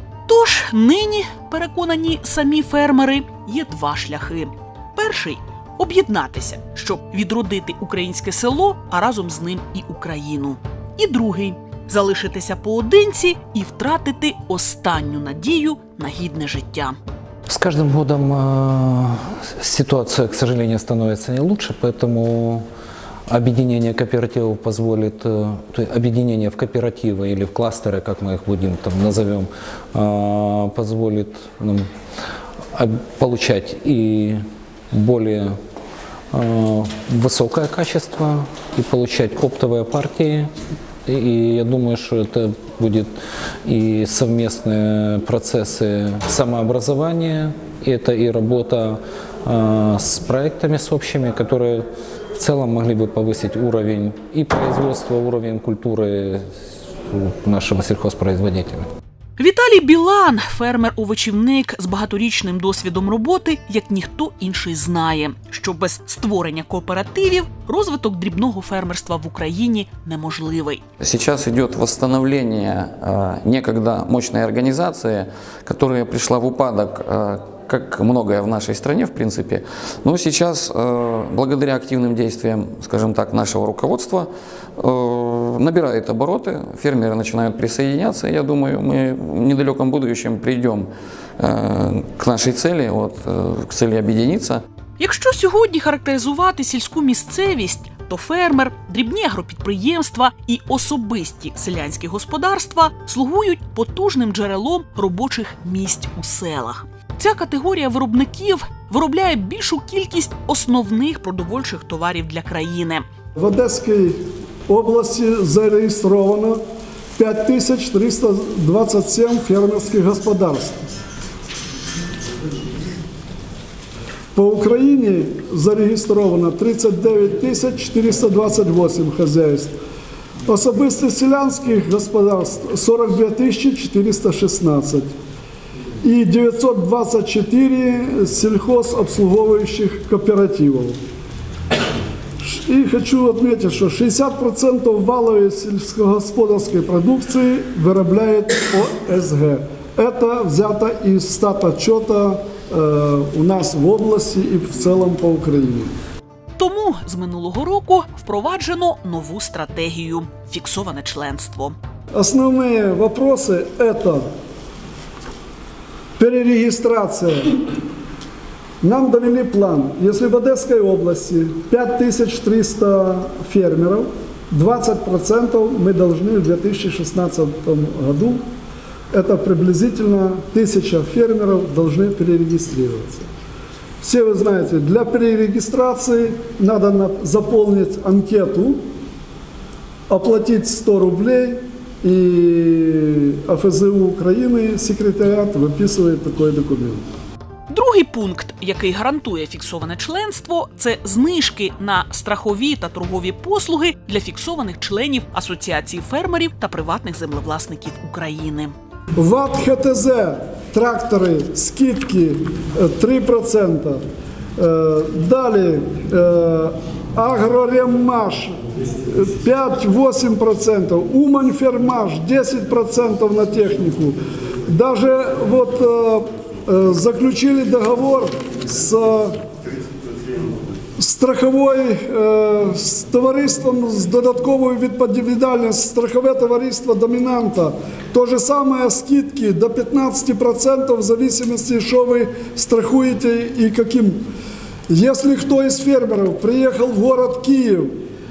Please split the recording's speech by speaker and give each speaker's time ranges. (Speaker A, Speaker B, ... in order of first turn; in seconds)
Speaker A: 0.3-17.0, 59.4-70.8, 95.0-113.0, 156.6-161.7, 197.7-208.7
Speaker B: 17.5-22.6, 23.3-31.9, 32.7-35.6, 36.3-40.5, 41.0-43.1, 43.6-58.9
Speaker C: 71.0-94.6
Speaker D: 113.3-116.6, 117.2-120.9, 124.3-129.8, 130.4-135.1, 136.0-141.0, 142.4-155.9, 162.1-164.3, 166.2-167.6, 168.8-178.4, 179.1-183.3, 184.0-188.8, 190.1-197.1, 209.2-214.0, 214.6-229.4, 231.0-244.2, 244.9-248.0